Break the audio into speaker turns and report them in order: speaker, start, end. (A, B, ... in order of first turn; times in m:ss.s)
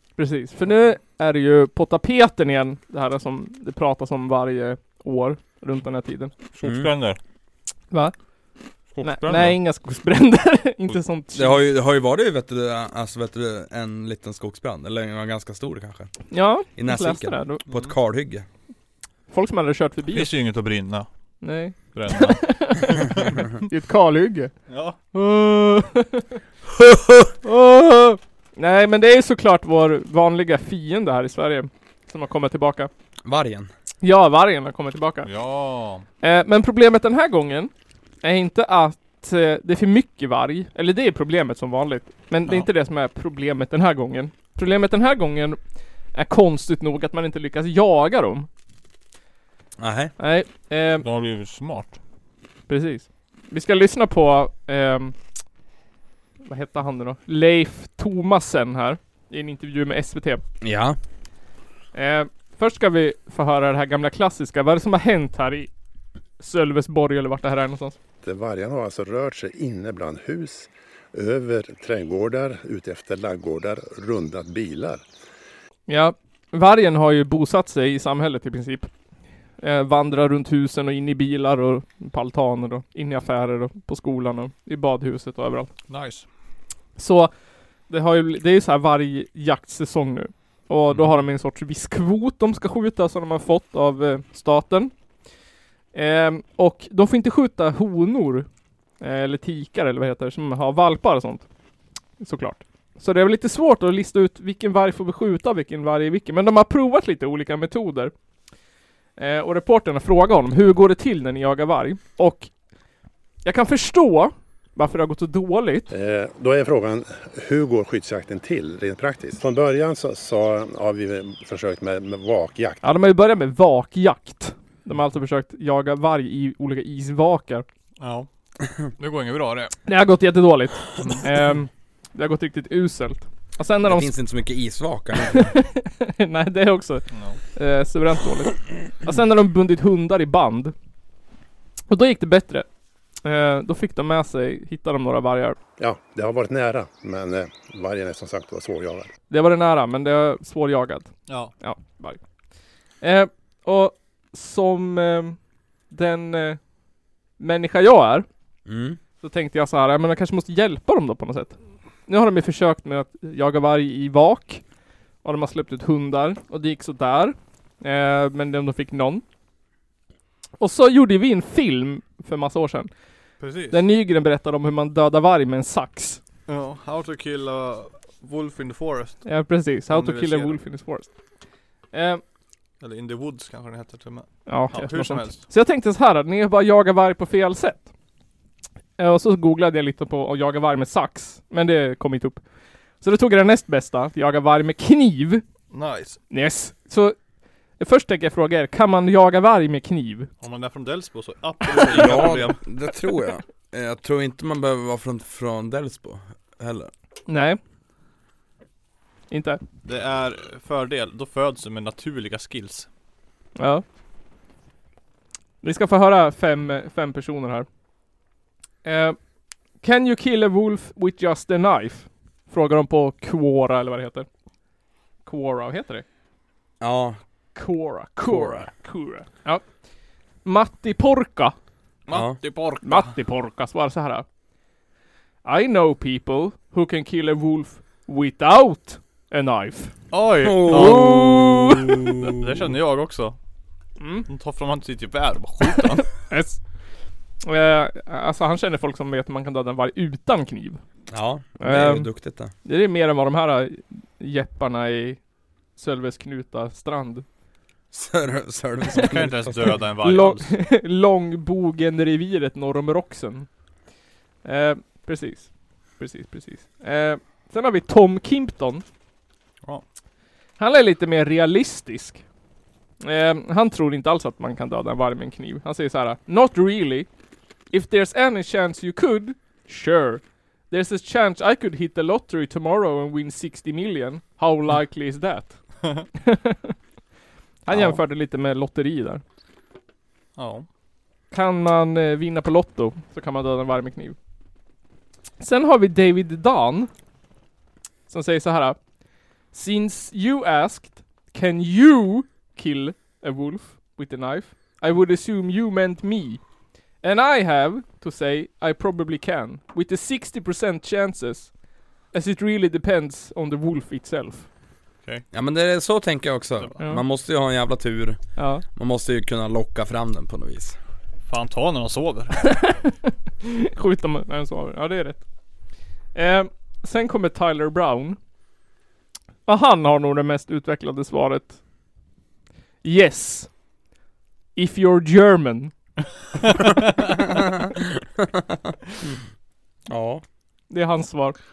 0:00.2-0:06.3 A
0:06.5-0:07.2 B
0:06.6-0:06.9 C
0:08.9-0:09.6 B
0:09.0-0:11.6 A
0:11.3-0:16.1 C
0:16.3-0:17.6 A
0:16.7-0:18.5 C
0:19.3-0:20.3 A
0:20.1-0:21.1 B
0:21.4-0:24.5 A
0:21.8-0:23.4 B
0:24.7-0:25.0 B
0:25.1-0:26.4 A
0:27.4-0:32.9 A
0:33.2-0:33.7 C
0:34.0-0:35.3 A
0:35.2-0:36.1 B
0:36.2-0:37.7 A
0:38.2-0:45.6 A
0:46.1-0:48.5 A
0:49.8-0:50.1 C
0:50.2-0:51.0 A
0:51.0-0:52.0 B
0:52.7-0:55.2 A
0:56.4-1:00.4 A
1:00.6-1:01.0 C
1:01.9-1:05.7 A
1:06.4-1:08.0 A
1:08.2-1:15.0 D
1:15.9-1:18.9 A
1:19.6-1:25.7 A
1:25.9-1:26.3 B
1:27.0-1:27.3 A
1:27.9-1:34.9 A
1:35.9-1:38.5 A
1:39.0-1:41.4 A
1:42.2-1:48.1 A
1:49.2-1:52.5 A
1:53.4-1:55.9 A
1:55.9-2:02.8 D
2:02.8-2:07.6 A
2:08.0-2:08.3 B
2:09.0-2:09.8 B
2:09.9-2:14.1 A
2:11.0-2:11.2 B
2:13.8-2:15.5 C
2:15.3-2:20.7 A
2:17.1-2:17.4 B
2:21.9-2:22.7 A
2:23.2-2:25.6 A
2:25.8-2:29.1 D
2:29.3-2:32.2 A
2:33.0-2:35.4 A
2:35.9-2:36.6 A
2:37.4-2:38.3 A
2:38.7-2:39.0 C
2:39.2-2:44.6 A
2:45.2-2:49.2 A
2:50.6-2:52.9 A
2:53.4-2:53.8 B
2:53.7-2:56.2 A
2:56.5-2:59.3 B
2:59.2-3:01.1 A
2:59.9-3:00.6 B
3:01.9-3:02.2 A
3:02.8-3:05.4 B
3:04.5-3:07.9 A
3:09.0-3:12.4 A
3:13.0-3:15.4 A
3:15.7-3:16.2 B
3:16.3-3:17.2 A
3:17.8-3:20.3 A
3:20.4-3:22.6 B
3:21.7-3:26.9 C
3:27.3-3:27.6 A
3:29.3-3:29.6 A
3:29.8-3:32.9 B
3:33.6-3:33.8 A
3:35.6-3:37.7 A
3:38.8-3:39.2 A
3:39.8-3:44.3 A
3:45.3-3:46.0 A
3:46.8-3:47.2 C
3:47.6-3:49.7 A
3:48.3-3:48.7 C
3:50.4-3:51.6 A
3:52.1-3:53.1 B
3:52.1-3:52.4 C
3:52.8-3:54.2 A
3:55.4-3:59.9 A
4:00.1-4:01.2 B
4:00.4-4:02.5 C
4:00.7-4:01.8 A
4:02.2-4:03.4 B
4:04.0-4:04.3 A
4:04.3-4:06.1 B
4:06.3-4:06.6 A
4:07.4-4:10.8 A
4:11.1-4:12.5 C
4:11.6-4:12.1 A
4:12.6-4:15.2 A
4:15.8-4:17.2 A
4:17.9-4:19.8 C
4:19.0-4:20.6 B
4:20.0-4:23.5 A
4:24.4-4:28.8 A
4:30.6-4:32.2 A
4:33.0-4:37.1 A
4:37.7-4:45.6 A
4:46.2-4:46.8 A
4:47.6-4:49.2 A
4:47.7-4:48.0 C
4:50.4-4:50.7 B
4:51.3-4:54.2 A
4:55.4-4:56.9 A
4:58.1-4:58.8 A
4:59.5-5:06.4 A
5:07.0-5:11.5 A
5:12.1-5:14.5 A
5:15.3-5:18.2 C
5:18.4-5:18.6 A
5:18.7-5:20.8 C
5:21.3-5:22.4 B
5:22.5-5:25.2 A
5:26.1-5:28.2 A
5:29.5-5:31.6 A
5:32.8-5:33.5 A
5:34.6-5:35.7 A
5:37.1-5:39.2 C
5:39.9-5:40.2 C
5:40.7-5:41.4 A